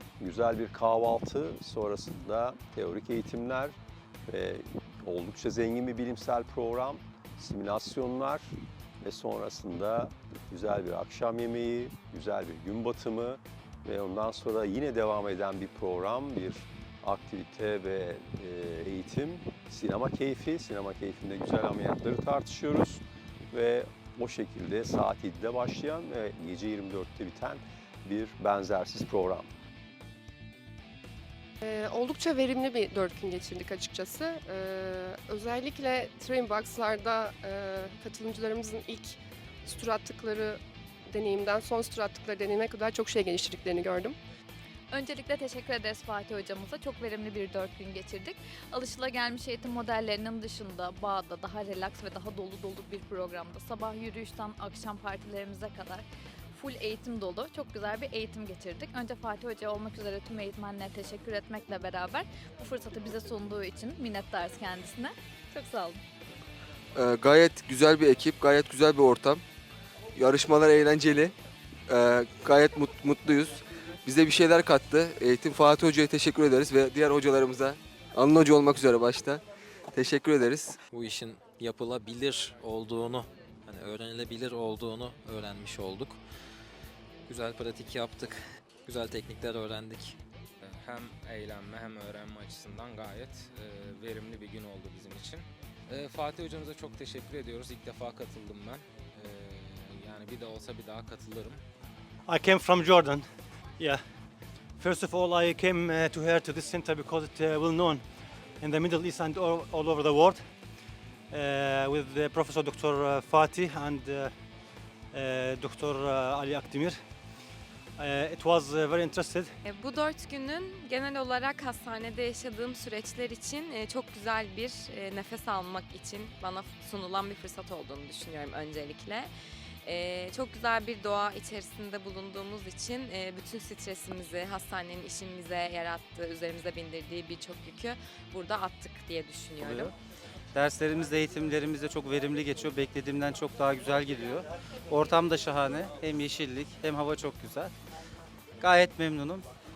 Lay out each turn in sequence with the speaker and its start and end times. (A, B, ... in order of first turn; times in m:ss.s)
0:00.2-0:03.8 A
0:04.3-0:29.5 A
0:31.6-0:44.2 B
0:44.9-0:56.0 C
0:56.5-1:06.0 C
1:06.9-1:09.4 D
1:10.1-1:11.3 D
1:11.9-1:19.4 D
1:19.9-1:20.8 D
1:20.9-1:26.2 E
1:27.2-1:30.2 E
1:30.6-1:41.6 F
1:42.2-1:44.0 G
1:44.7-1:50.5 G
1:51.3-1:54.3 G
1:55.1-1:57.0 G
1:58.0-1:59.5 G
1:59.6-2:09.3 H
2:09.8-2:19.9 H
2:20.5-2:27.7 I
2:28.6-2:29.4 I